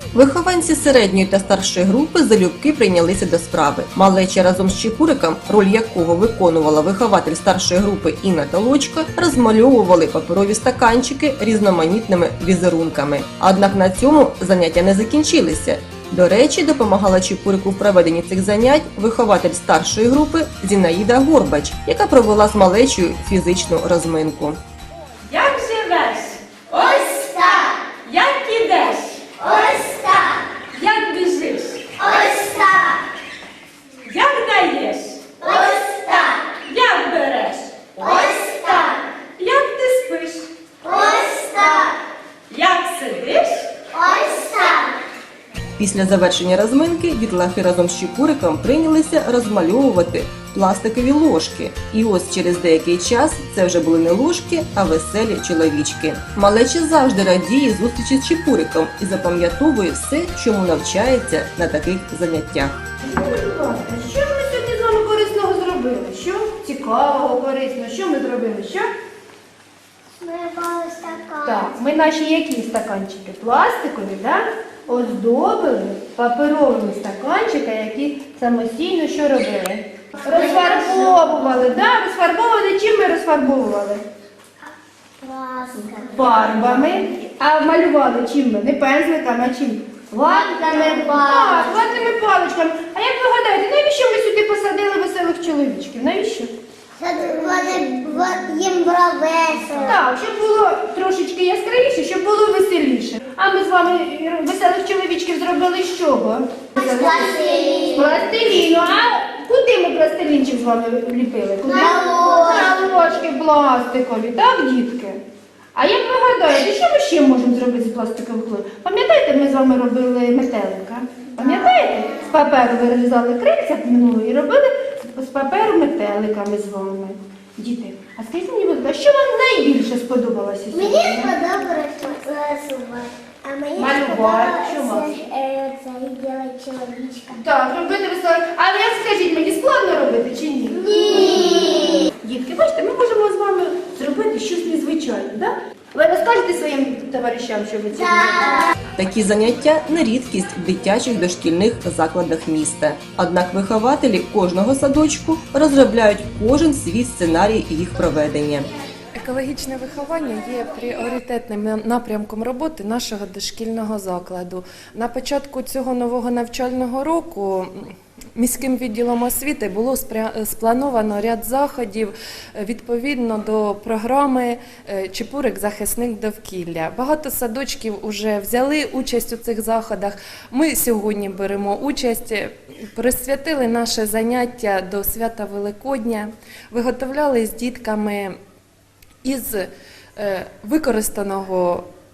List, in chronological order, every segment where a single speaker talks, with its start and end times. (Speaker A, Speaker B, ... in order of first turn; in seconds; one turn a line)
Speaker A: 0.1-24.6
Speaker B: 25.2-27.2
Speaker C: 26.7-27.8
Speaker B: 28.0-29.2
Speaker C: 29.4-30.5
Speaker B: 30.7-31.9
Speaker C: 32.0-33.0
Speaker B: 34.0-35.4
Speaker C: 35.4-36.6
Speaker B: 36.6-38.2
Speaker C: 38.0-39.0
Speaker B: 39.4-40.5
Speaker C: 40.8-42.0
Speaker B: 42.5-43.7
Speaker C: 43.9-45.0
Speaker A: 45.8-62.8
Speaker D: 63.0-68.9
Speaker C: 70.1-71.8
Speaker D: 71.4-84.0
Speaker C: 80.2-81.4
Speaker C: 85.2-86.9
Speaker D: 85.7-96.5
Speaker C: 90.2-92.1
Speaker C: 96.9-100.0
Speaker D: 99.8-115.2
Speaker C: 106.7-108.3
Speaker C: 111.6-112.9
Speaker D: 115.7-131.4
Speaker C: 121.4-122.3
Speaker C: 130.7-137.4
Speaker D: 133.8-135.2
Speaker D: 137.3-148.7
Speaker C: 140.7-142.1
Speaker C: 147.9-148.7
Speaker A: 149.0-158.7
Speaker E: 159.1-188.4
Speaker E: 189.2-191.8